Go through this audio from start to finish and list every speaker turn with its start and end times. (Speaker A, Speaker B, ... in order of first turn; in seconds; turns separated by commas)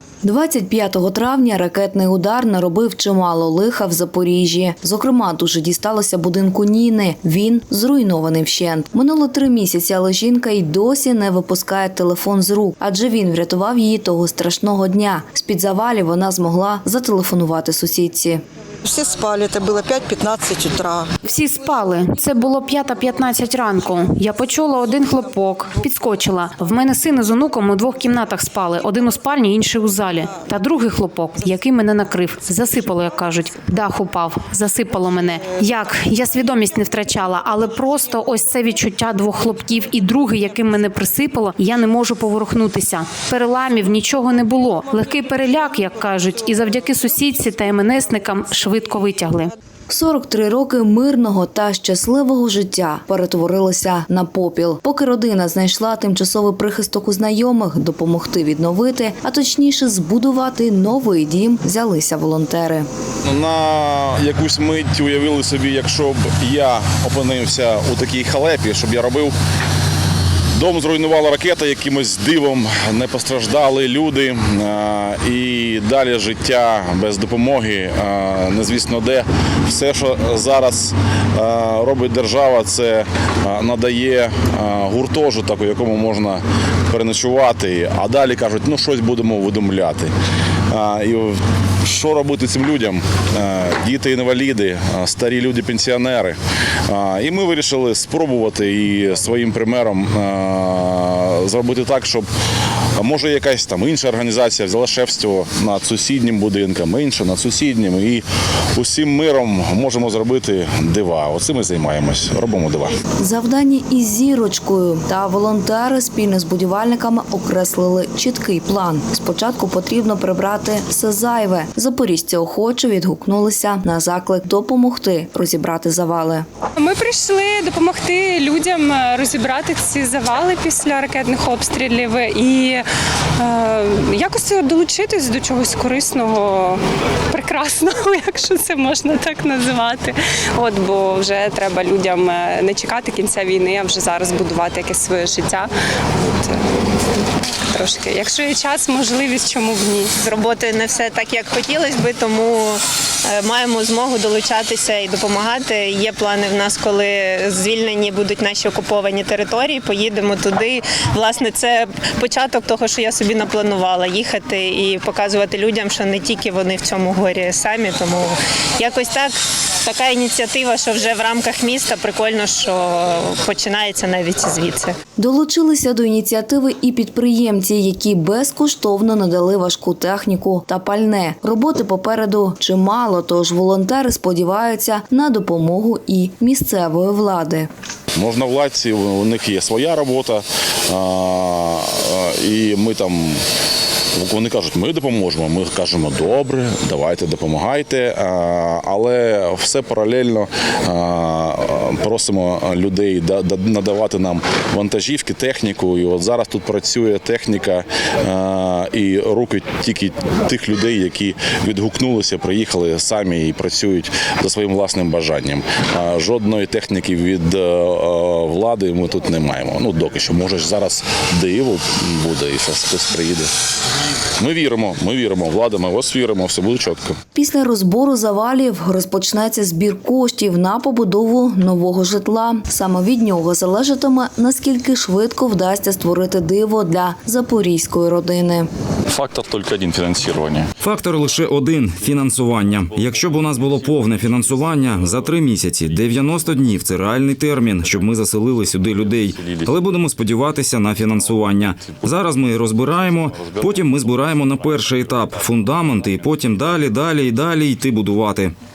Speaker A: 0.2-18.4, Speaker B: 18.8-21.1, Speaker C: 21.2-49.5, Speaker A: 49.9-62.9, Speaker D: 63.2-69.3, Speaker D: 70.5-90.1, Speaker D: 90.7-102.3, Speaker D: 103.0-113.0, Speaker A: 113.2-126.4, Speaker E: 126.8-132.8, Speaker E: 133.4-145.7, Speaker E: 146.4-150.1, Speaker F: 150.2-174.9, Speaker A: 175.2-187.7, Speaker D: 188.1-193.4, Speaker D: 194.2-223.5, Speaker D: 224.4-227.2, Speaker A: 227.3-238.7, Speaker G: 240.8-258.5